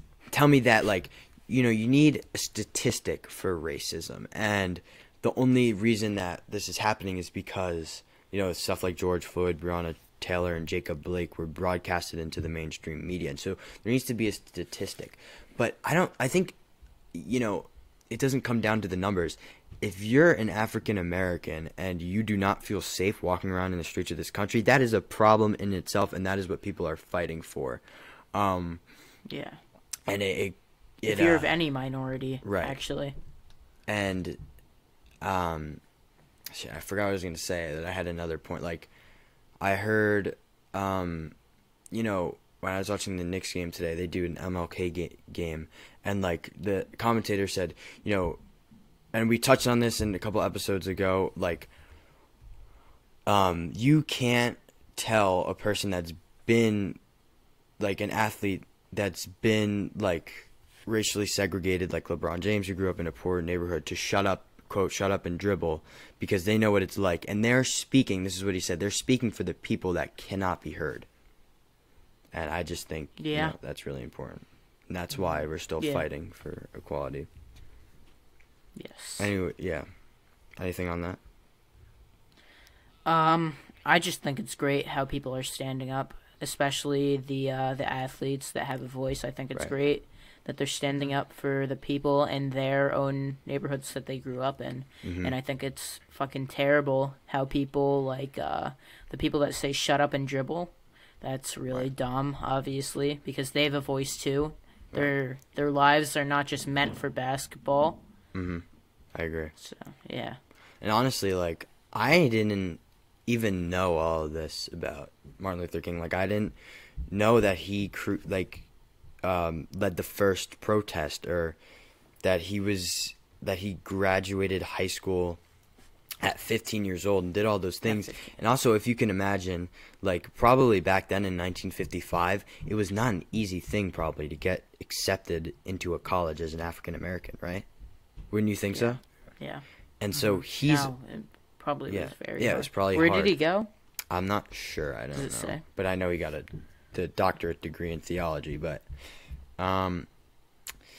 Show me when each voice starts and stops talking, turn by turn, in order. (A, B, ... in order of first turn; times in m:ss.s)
0:00.3-0:16.5 A
0:17.1-0:27.8 A
0:28.3-0:28.8 A
0:29.3-0:29.6 B
0:30.1-0:31.5 A
0:31.1-0:33.1 B
0:32.4-0:32.8 A
0:33.9-0:34.4 A
0:35.2-0:35.8 A
0:36.5-0:38.9 A
0:39.6-0:41.3 A
0:41.9-0:48.4 A
0:49.1-0:51.7 A
0:53.2-0:57.0 A
0:57.8-1:11.1 A
1:12.3-1:17.3 A
1:13.2-1:13.5 B
1:15.8-1:16.0 B
1:18.8-1:19.3 B
1:19.2-1:19.9 A
1:20.6-1:21.2 A
1:23.0-1:48.0 B
1:35.0-1:35.3 A
1:48.3-1:48.6 A
1:49.1-1:49.5 A
1:49.6-1:50.4 B
1:50.8-1:56.5 A
1:57.1-1:58.6 A
1:59.2-2:01.6 A
2:02.2-2:05.4 A
2:06.2-2:17.6 A
2:07.8-2:08.3 B
2:18.3-2:19.0 A
2:18.7-2:19.6 B
2:20.0-2:20.9 A
2:20.2-2:23.7 B
2:21.9-2:23.3 A
2:24.1-2:28.8 A
2:25.1-2:25.6 B
2:29.6-2:30.1 A